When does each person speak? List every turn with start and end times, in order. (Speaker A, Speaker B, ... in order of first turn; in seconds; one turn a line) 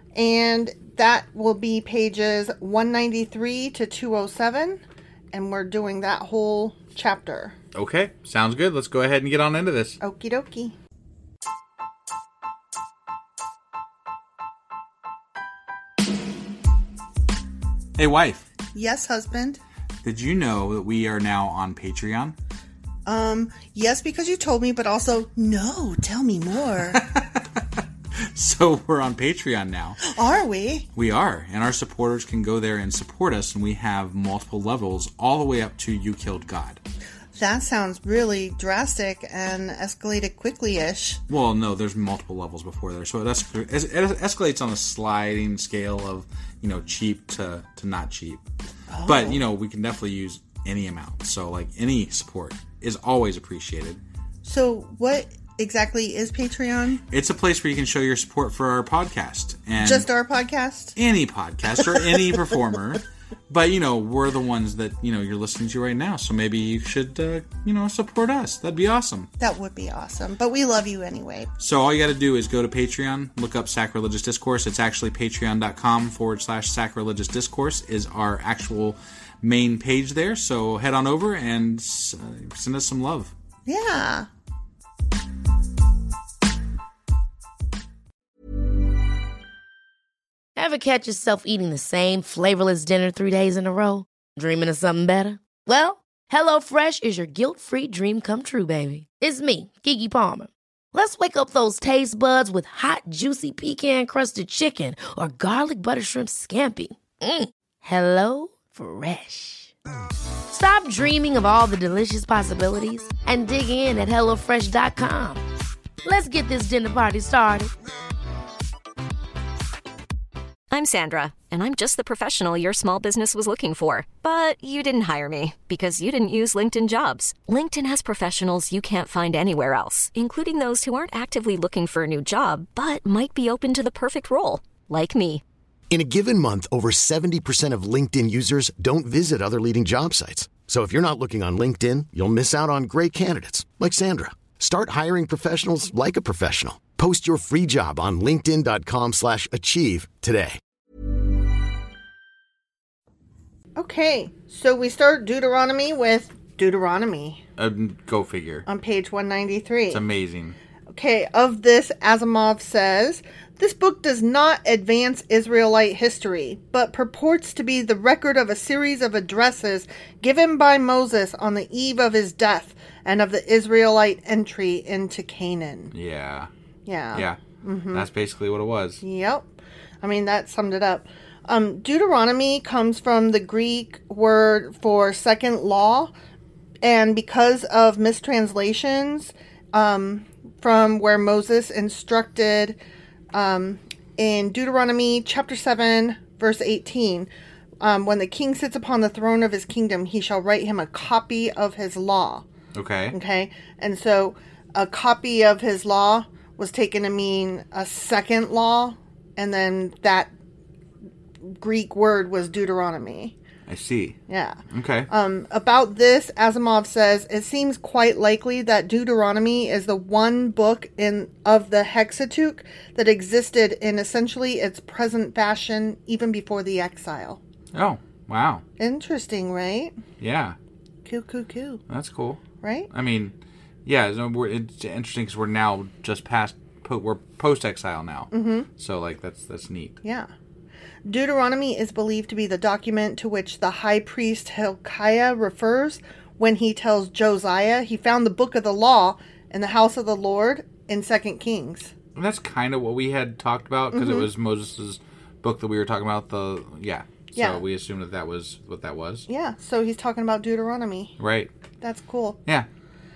Speaker A: 0.1-7.5
Speaker B: 7.7-10.0
Speaker A: 10.0-10.7
Speaker B: 18.0-18.4
Speaker A: 18.7-19.6
Speaker B: 20.0-22.3
Speaker A: 23.1-27.0
Speaker B: 26.9-30.0
Speaker A: 30.0-30.9
Speaker B: 30.9-36.8
Speaker A: 37.3-41.2
Speaker B: 41.3-48.4
Speaker A: 48.9-49.4
Speaker B: 49.0-54.0
Speaker A: 54.4-57.0
Speaker B: 57.1-60.1
Speaker A: 59.8-60.9
Speaker B: 61.0-69.3
Speaker A: 69.4-71.5
Speaker B: 71.6-83.3
Speaker A: 83.7-84.3
Speaker C: 90.5-109.7
Speaker C: 110.5-115.4
Speaker C: 116.0-117.7
Speaker D: 120.7-135.4
Speaker E: 135.9-150.6
Speaker A: 153.8-157.4
Speaker B: 157.6-158.6
Speaker A: 158.7-160.0
Speaker B: 159.9-160.6
Speaker A: 160.9-175.9
Speaker B: 175.9-176.5
Speaker A: 176.8-178.1
Speaker B: 177.9-179.0
Speaker A: 179.0-179.5
Speaker A: 180.0-186.1
Speaker A: 186.8-192.8
Speaker A: 193.3-197.3
Speaker A: 197.8-202.4
Speaker B: 202.7-203.2
Speaker A: 203.1-210.3
Speaker A: 211.4-213.3
Speaker B: 213.7-214.2
Speaker A: 214.3-227.4
Speaker B: 214.7-215.1
Speaker B: 227.7-228.6
Speaker A: 228.8-230.0
Speaker B: 230.2-230.6
Speaker A: 231.0-231.8
Speaker B: 231.9-233.3
Speaker A: 232.6-232.9
Speaker B: 233.8-240.0
Speaker A: 238.3-238.7
Speaker A: 240.0-240.3
Speaker A: 241.0-251.9
Speaker B: 252.2-259.3
Speaker A: 253.9-254.3
Speaker A: 257.3-257.6
Speaker A: 259.3-261.1
Speaker B: 261.2-261.5
Speaker A: 261.8-262.4